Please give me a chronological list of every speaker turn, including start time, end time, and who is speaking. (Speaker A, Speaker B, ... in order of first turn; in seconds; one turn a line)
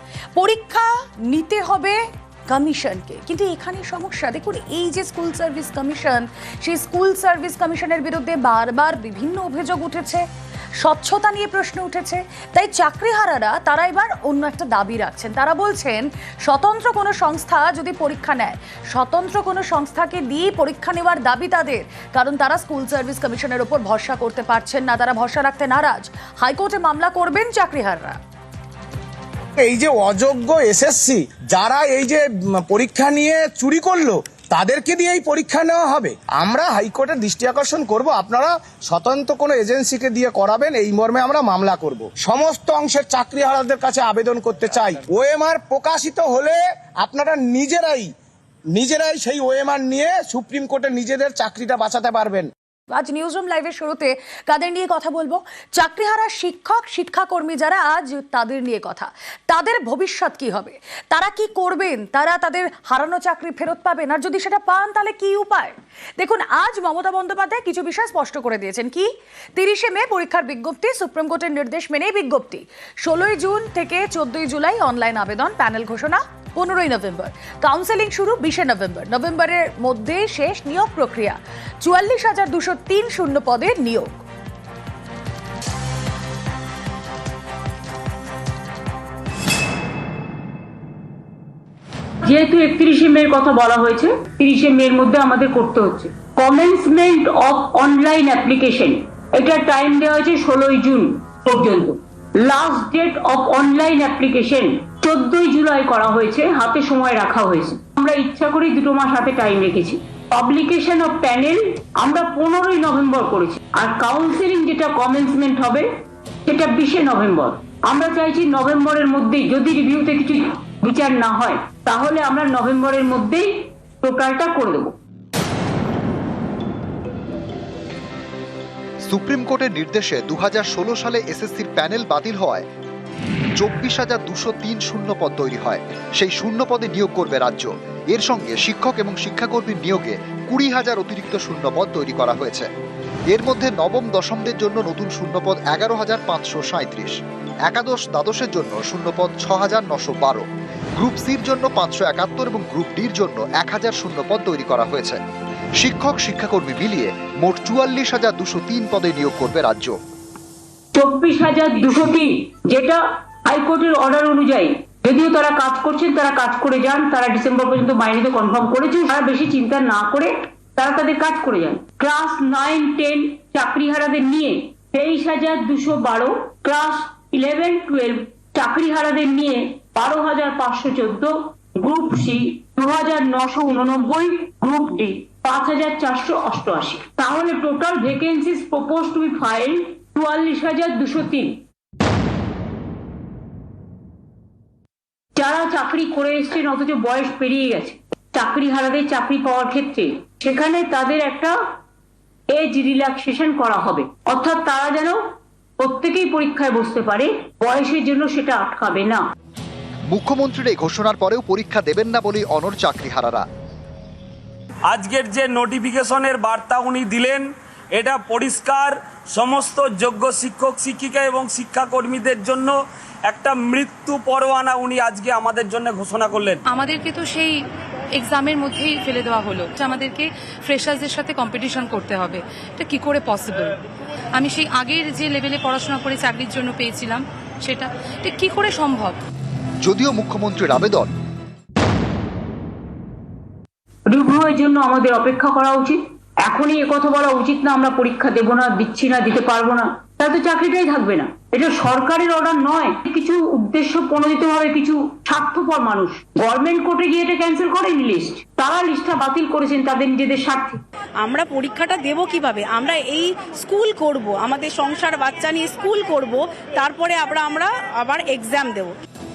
Speaker A: 0.3-10.3
Speaker A: 10.8-28.2
Speaker B: 29.6-48.1
Speaker B: 48.7-52.5
Speaker A: 52.9-84.2
Speaker C: 92.2-115.9
Speaker C: 116.5-124.9
Speaker D: 129.1-132.7
Speaker D: 133.6-142.7
Speaker D: 143.3-147.2
Speaker D: 147.7-150.4
Speaker D: 151.0-155.2
Speaker D: 155.8-160.0
Speaker C: 160.9-191.6
Speaker C: 195.4-201.6
Speaker C: 202.5-205.2
Speaker C: 205.8-209.2
Speaker D: 210.1-213.5
Speaker E: 214.9-226.6
Speaker F: 226.7-227.6
Speaker F: 228.2-233.7
Speaker F: 234.4-239.2
Speaker D: 239.8-241.1
Speaker C: 244.1-260.8
Speaker G: 261.2-268.9